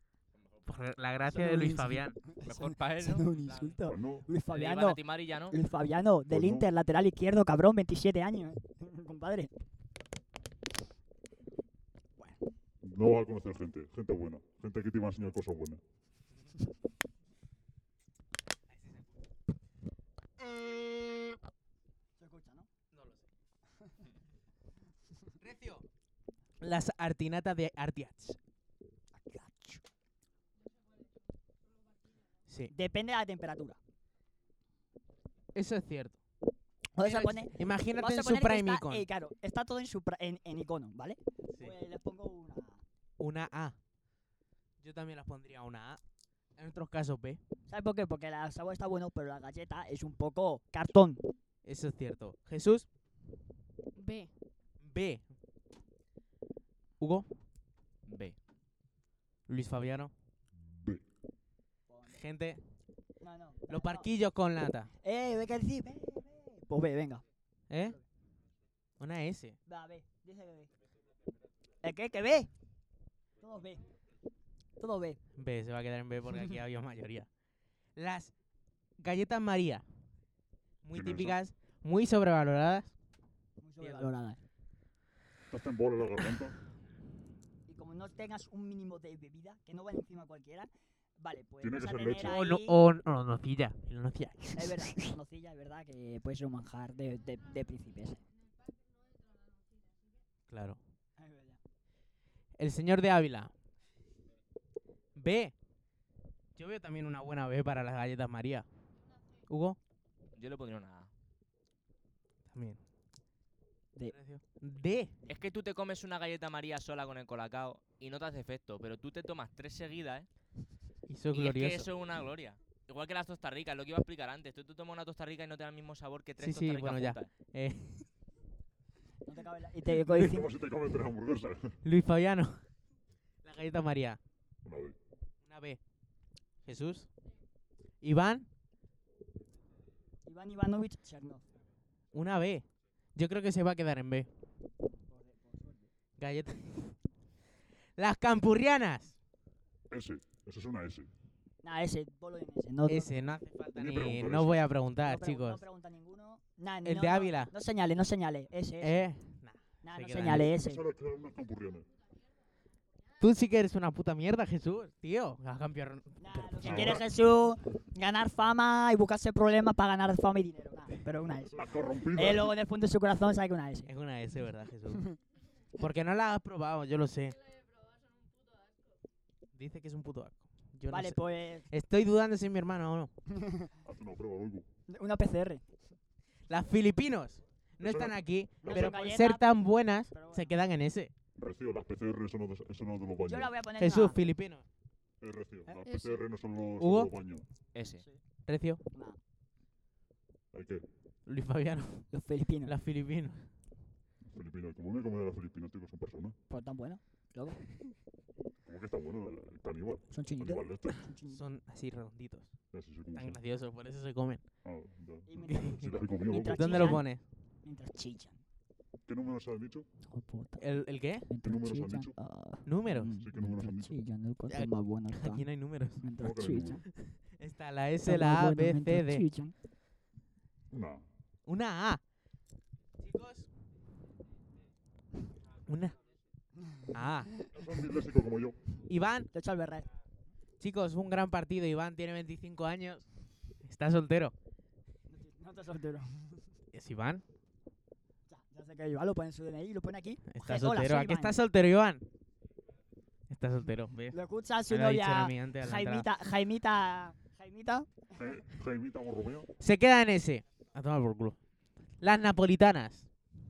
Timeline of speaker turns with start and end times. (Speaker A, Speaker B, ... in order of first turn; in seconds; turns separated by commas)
Speaker A: 0.5-0.8, Speaker B: 0.7-2.2, Speaker C: 1.3-9.5, Speaker A: 2.4-3.8, Speaker D: 3.9-4.2, Speaker A: 4.5-5.5, Speaker D: 6.3-6.7, Speaker D: 12.8-15.8, Speaker C: 22.2-22.7, Speaker B: 22.9-23.2, Speaker B: 25.4-25.8, Speaker B: 26.6-28.4, Speaker C: 29.1-29.8, Speaker C: 32.7-33.8, Speaker B: 35.5-36.2, Speaker C: 36.9-42.8, Speaker B: 37.0-39.0, Speaker B: 43.2-43.8, Speaker B: 44.8-46.0, Speaker B: 46.6-47.4, Speaker C: 47.7-51.2, Speaker B: 51.6-52.9, Speaker E: 54.0-54.3, Speaker B: 54.8-55.2, Speaker B: 57.0-57.3, Speaker A: 58.1-58.4, Speaker B: 59.5-60.1, Speaker D: 60.6-61.0, Speaker C: 61.9-62.2, Speaker B: 62.1-62.6, Speaker C: 63.2-64.1, Speaker B: 63.7-64.9, Speaker C: 65.0-67.2, Speaker B: 67.7-68.0, Speaker B: 69.0-69.6, Speaker C: 69.7-70.7, Speaker C: 71.8-72.5, Speaker C: 73.4-73.8, Speaker C: 74.8-75.2, Speaker B: 75.4-77.3, Speaker B: 78.0-78.3, Speaker B: 79.0-79.8, Speaker B: 80.8-82.9, Speaker D: 80.9-81.4, Speaker C: 83.6-84.4, Speaker B: 83.8-84.1, Speaker D: 85.5-86.5, Speaker C: 87.7-92.8, Speaker D: 91.6-92.4, Speaker B: 92.2-95.0, Speaker C: 94.5-98.2, Speaker B: 100.5-100.8, Speaker C: 101.2-101.6, Speaker B: 102.6-103.5, Speaker B: 105.2-105.5, Speaker B: 106.5-108.7, Speaker B: 109.5-109.8, Speaker A: 110.3-111.1, Speaker B: 112.5-112.8, Speaker B: 114.1-115.1, Speaker A: 115.3-120.3, Speaker B: 121.1-121.9, Speaker A: 121.3-127.3, Speaker B: 126.4-128.1, Speaker C: 129.2-130.5, Speaker D: 130.1-131.8, Speaker B: 131.8-132.6, Speaker B: 133.4-134.2, Speaker D: 134.6-135.0, Speaker B: 135.4-135.8, Speaker B: 136.6-137.1, Speaker B: 138.0-138.5, Speaker C: 140.2-141.4, Speaker B: 142.1-144.3, Speaker C: 145.1-145.9, Speaker B: 146.2-146.9, Speaker B: 148.0-149.1, Speaker D: 149.9-151.1, Speaker C: 151.6-153.1, Speaker B: 152.9-155.6, Speaker D: 153.7-154.7, Speaker C: 155.0-159.1, Speaker B: 156.8-157.5, Speaker B: 158.8-160.5, Speaker C: 159.8-160.8, Speaker D: 160.2-161.9, Speaker B: 163.2-167.0, Speaker C: 166.2-173.9, Speaker D: 166.6-167.0, Speaker D: 171.5-172.5, Speaker B: 173.9-175.2, Speaker B: 175.8-177.4, Speaker E: 177.5-178.7, Speaker B: 179.5-183.1, Speaker C: 180.9-181.7, Speaker C: 183.3-183.7, Speaker D: 183.8-184.7, Speaker C: 184.9-185.7, Speaker B: 186.5-191.1, Speaker D: 187.8-189.0, Speaker C: 188.6-189.5, Speaker C: 190.1-190.5, Speaker D: 191.3-193.5, Speaker C: 193.2-194.2, Speaker B: 193.8-194.6, Speaker D: 195.2-197.4, Speaker E: 195.8-196.2, Speaker B: 196.8-197.1, Speaker A: 197.7-198.0, Speaker B: 198.4-198.8, Speaker C: 198.9-199.2, Speaker D: 200.5-200.8, Speaker B: 201.2-202.1, Speaker C: 202.1-202.7, Speaker B: 202.7-203.5, Speaker D: 204.2-206.3, Speaker C: 206.5-207.6, Speaker D: 208.6-211.1, Speaker C: 210.1-211.4, Speaker B: 211.3-212.5, Speaker D: 212.7-213.4, Speaker B: 213.1-214.4, Speaker D: 214.6-217.0, Speaker C: 215.3-217.1, Speaker B: 215.5-215.9, Speaker B: 216.4-217.2, Speaker C: 217.6-218.4, Speaker D: 219.1-219.8, Speaker C: 220.1-220.6, Speaker B: 220.6-221.3, Speaker C: 221.2-225.4, Speaker D: 221.4-222.1, Speaker B: 222.7-223.1, Speaker D: 223.0-223.9, Speaker B: 224.5-226.1, Speaker C: 226.0-226.8, Speaker D: 226.2-226.8, Speaker B: 227.1-229.2, Speaker C: 228.0-229.5, Speaker D: 230.7-231.0, Speaker B: 231.4-232.0, Speaker B: 233.0-233.5, Speaker B: 235.7-235.9, Speaker B: 236.9-237.4, Speaker D: 237.5-238.6, Speaker B: 238.9-239.3, Speaker C: 239.3-239.9, Speaker B: 240.6-243.0, Speaker B: 243.6-244.3, Speaker C: 245.1-246.4, Speaker B: 246.7-247.2, Speaker C: 248.3-251.3, Speaker B: 250.3-252.0, Speaker B: 253.3-254.2, Speaker C: 254.1-258.0, Speaker B: 254.7-256.1, Speaker D: 258.1-259.5, Speaker B: 259.6-261.4, Speaker B: 262.0-263.1